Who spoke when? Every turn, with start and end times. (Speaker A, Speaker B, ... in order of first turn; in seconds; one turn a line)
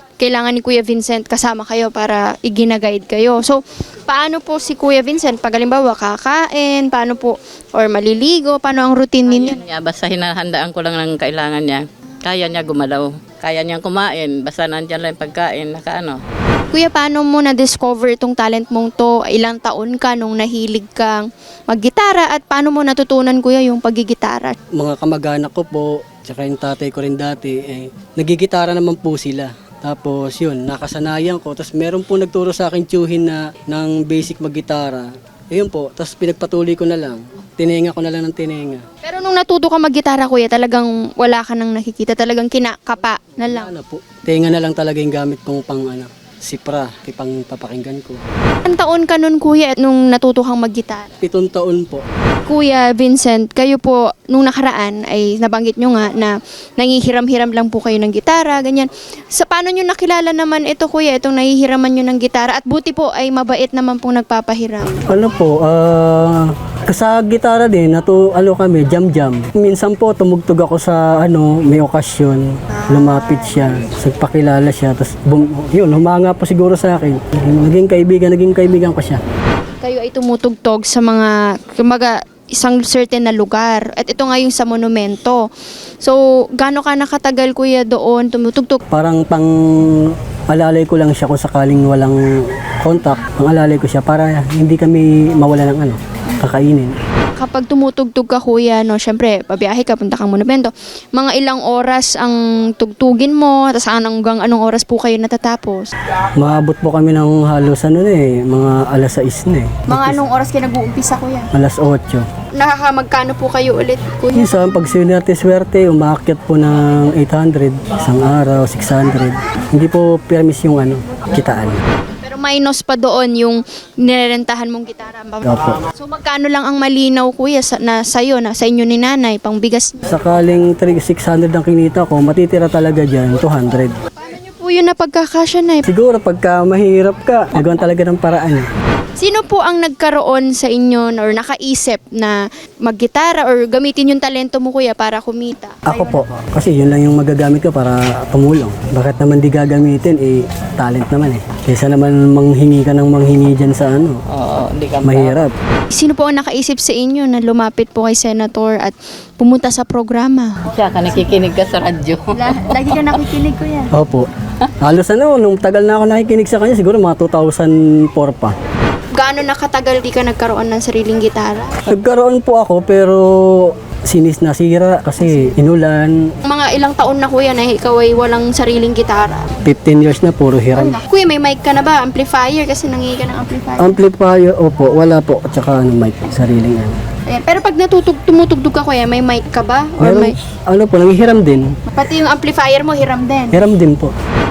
Speaker A: 0.2-9.6
Speaker B: 9.3-16.2
Speaker A: 16.7-24.6
Speaker C: 24.7-38.8
Speaker A: 39.0-43.7
Speaker C: 43.5-48.2
Speaker A: 48.6-51.1
Speaker C: 51.2-52.0
Speaker A: 52.5-65.0
Speaker C: 65.1-79.2
Speaker A: 72.9-73.3
Speaker A: 79.8-85.5
Speaker A: 86.0-88.8
Speaker C: 88.9-97.0
Speaker A: 97.4-105.9
Speaker C: 106.4-110.2
Speaker A: 109.9-111.5
Speaker C: 111.5-112.3
Speaker A: 112.5-114.5
Speaker C: 114.3-121.8
Speaker A: 122.2-130.0
Speaker C: 125.4-125.8
Speaker C: 130.1-134.0
Speaker A: 134.2-135.8
Speaker C: 135.8-138.7
Speaker A: 139.2-146.2
Speaker C: 145.8-154.2
Speaker B: 154.3-155.4
Speaker C: 155.0-155.5
Speaker A: 155.9-160.6
Speaker B: 160.7-163.0
Speaker A: 162.3-163.9
Speaker C: 163.9-164.3
Speaker C: 164.8-168.5
Speaker A: 169.1-171.8
Speaker C: 171.8-176.2
Speaker A: 176.4-179.5
Speaker C: 179.6-180.9
Speaker A: 180.8-184.0
Speaker C: 183.8-187.0
Speaker A: 187.3-190.3
Speaker C: 190.0-191.8
Speaker A: 191.9-193.5
Speaker C: 193.5-194.1